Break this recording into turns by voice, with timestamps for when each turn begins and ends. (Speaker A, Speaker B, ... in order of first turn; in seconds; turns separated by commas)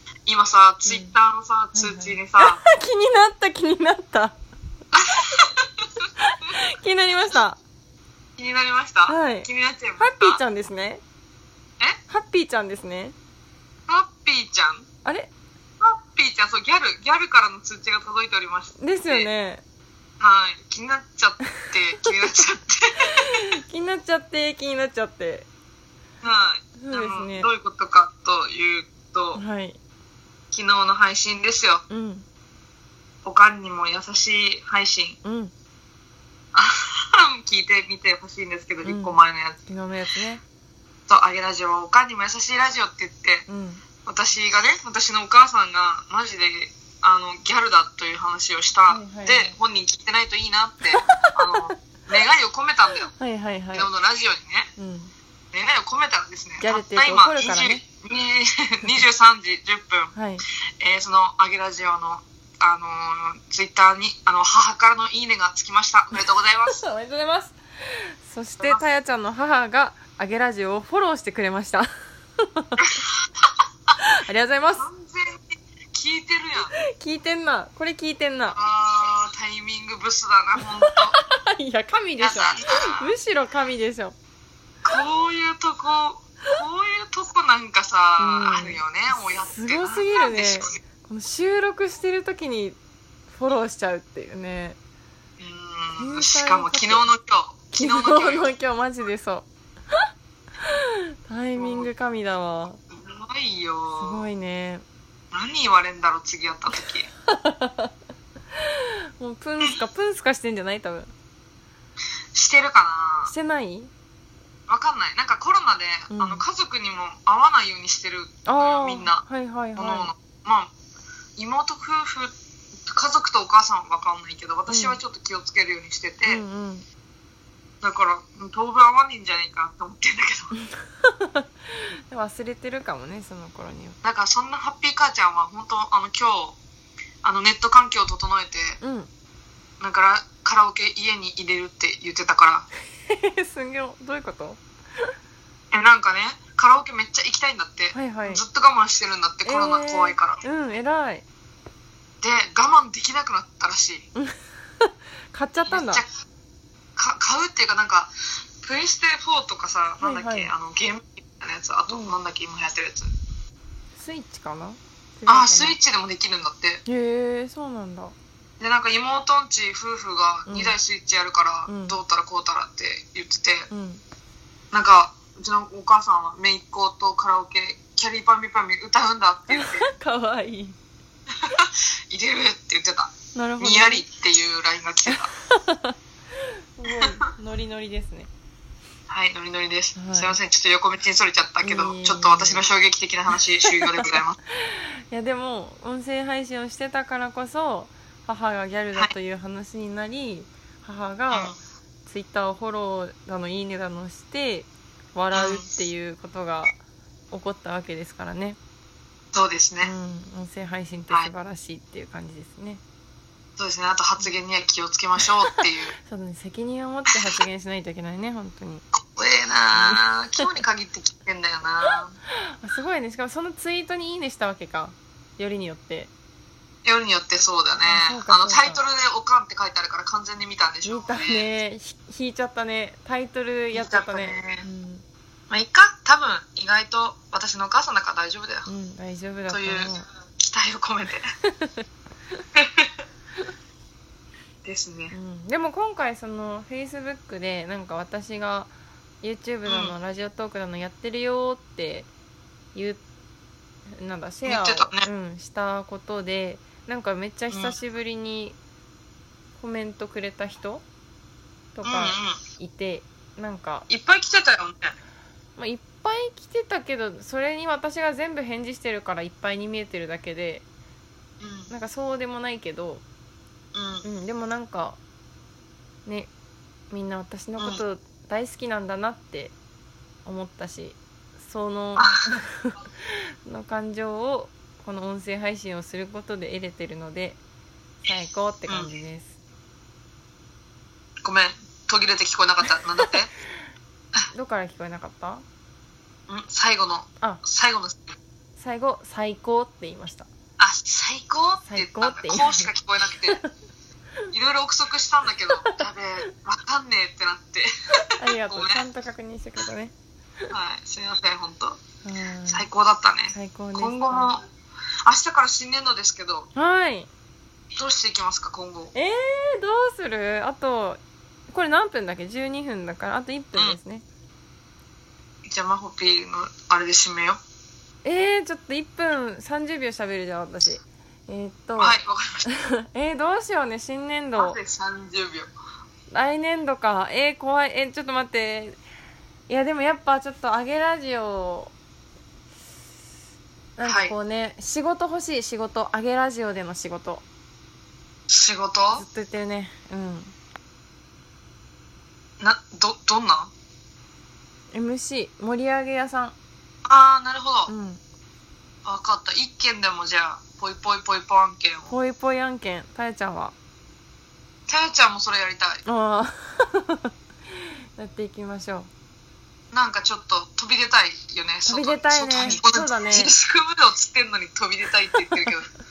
Speaker A: 0.2-2.6, Speaker B: 0.9-1.1, Speaker B: 1.7-4.4, Speaker A: 4.9-5.5, Speaker B: 6.2-7.6, Speaker A: 8.4-10.4, Speaker B: 9.1-9.5, Speaker B: 10.0-11.0, Speaker B: 12.1-13.1, Speaker A: 13.9-14.9, Speaker B: 15.0-15.3, Speaker A: 15.8-19.3, Speaker B: 18.8-19.6, Speaker A: 20.2-23.4, Speaker B: 23.1-25.5, Speaker A: 26.2-29.4, Speaker B: 26.8-27.5, Speaker B: 29.4-29.8, Speaker A: 30.5-31.8, Speaker B: 31.9-32.2, Speaker A: 33.2-35.2, Speaker B: 35.2-35.5, Speaker A: 36.5-39.6, Speaker B: 38.9-40.4, Speaker A: 41.1-43.5, Speaker B: 43.5-43.8, Speaker A: 44.1-53.1, Speaker B: 48.9-49.5, Speaker B: 51.0-51.7, Speaker B: 53.1-53.9, Speaker A: 53.7-54.7, Speaker B: 54.8-55.1, Speaker A: 55.5-60.1, Speaker B: 56.6-57.8, Speaker B: 60.1-60.4, Speaker A: 60.8-66.8, Speaker B: 66.7-72.9, Speaker A: 68.6-68.8, Speaker B: 74.0-74.9, Speaker A: 74.8-76.7, Speaker B: 76.7-78.6, Speaker A: 78.5-81.2, Speaker B: 80.9-84.2, Speaker A: 82.2-83.1, Speaker A: 84.8-90.8, Speaker B: 88.2-92.8, Speaker B: 93.3-94.8, Speaker A: 95.4-98.5, Speaker B: 96.0-97.1, Speaker B: 97.7-100.1, Speaker B: 100.6-102.8, Speaker A: 101.5-101.9, Speaker A: 102.9-104.2, Speaker B: 103.9-104.8, Speaker A: 105.3-107.1, Speaker B: 107.3-107.9, Speaker B: 108.5-111.1, Speaker A: 112.3-113.3, Speaker B: 113.2-113.9, Speaker A: 114.7-119.2, Speaker B: 116.1-116.4, Speaker B: 118.5-120.1, Speaker A: 119.8-120.7, Speaker A: 121.4-122.3, Speaker A: 122.8-126.4, Speaker B: 124.7-125.0, Speaker B: 126.2-126.8, Speaker A: 127.8-130.5, Speaker B: 130.8-134.0, Speaker A: 134.0-136.6, Speaker A: 137.2-138.8, Speaker B: 138.8-139.1, Speaker A: 139.8-142.7, Speaker B: 143.1-145.1, Speaker A: 145.7-150.4, Speaker B: 147.9-148.4, Speaker B: 149.4-151.2, Speaker A: 152.2-154.1, Speaker B: 154.2-156.0, Speaker A: 155.7-156.1, Speaker A: 157.0-163.1, Speaker B: 160.0-160.5, Speaker B: 161.9-162.1, Speaker B: 163.9-165.8, Speaker A: 165.3-166.8, Speaker B: 166.9-168.1, Speaker A: 168.6-173.7, Speaker B: 170.5-170.8, Speaker B: 171.7-171.9, Speaker B: 173.7-174.0, Speaker A: 174.7-179.9, Speaker B: 179.5-180.8, Speaker A: 181.4-185.3, Speaker B: 183.3-184.0, Speaker B: 185.1-188.3, Speaker A: 189.1-194.4, Speaker B: 190.0-190.4, Speaker B: 191.6-192.6, Speaker B: 193.7-201.5, Speaker A: 201.3-201.6, Speaker B: 202.1-206.8, Speaker A: 205.3-205.7, Speaker B: 207.3-208.6, Speaker A: 209.3-209.9, Speaker B: 209.8-212.8, Speaker A: 213.6-215.9, Speaker B: 216.1-218.9, Speaker A: 219.1-222.2, Speaker B: 219.7-220.5, Speaker B: 222.5-226.1, Speaker A: 226.8-231.5, Speaker B: 227.8-228.8, Speaker B: 230.8-235.0, Speaker A: 233.7-234.7, Speaker A: 235.5-238.7, Speaker B: 238.7-240.1, Speaker A: 239.5-241.3, Speaker B: 241.6-241.8, Speaker A: 242.5-242.9, Speaker A: 244.6-245.1, Speaker B: 245.1-248.7, Speaker B: 249.2-252.1, Speaker A: 249.7-249.9, Speaker B: 252.7-253.0, Speaker B: 254.0-258.6, Speaker A: 254.4-255.1, Speaker B: 259.6-260.8, Speaker B: 261.8-263.9, Speaker A: 261.8-262.4, Speaker A: 263.9-264.9, Speaker B: 265.6-270.6, Speaker A: 271.4-271.7, Speaker B: 271.7-273.0, Speaker A: 273.7-274.0, Speaker B: 274.0-275.0, Speaker B: 276.1-276.3, Speaker B: 276.9-279.5, Speaker B: 280.2-287.4, Speaker A: 282.0-282.3, Speaker B: 288.1-289.3, Speaker A: 291.2-293.3, Speaker B: 294.3-295.4, Speaker A: 296.3-298.2, Speaker B: 298.6-300.3, Speaker A: 300.6-303.4, Speaker B: 301.6-302.7, Speaker A: 304.3-308.9, Speaker B: 308.2-309.9, Speaker A: 310.5-311.8, Speaker B: 312.0-312.7, Speaker A: 312.5-314.4, Speaker B: 313.3-314.3, Speaker A: 315.1-316.5, Speaker B: 316.5-317.1, Speaker A: 317.8-318.9, Speaker B: 318.9-324.0, Speaker A: 325.5-327.4, Speaker B: 328.0-334.6, Speaker A: 331.8-332.5, Speaker A: 334.4-335.5, Speaker B: 336.1-338.8, Speaker B: 339.5-341.7, Speaker B: 343.8-347.2, Speaker A: 343.8-344.1, Speaker A: 348.3-349.0, Speaker B: 348.9-350.3, Speaker A: 352.4-353.5, Speaker B: 354.7-356.4, Speaker A: 356.9-357.7, Speaker B: 357.7-358.0, Speaker A: 358.9-361.9, Speaker B: 361.9-363.5, Speaker A: 364.7-365.8, Speaker B: 365.9-368.9, Speaker A: 369.7-375.7, Speaker B: 371.6-373.3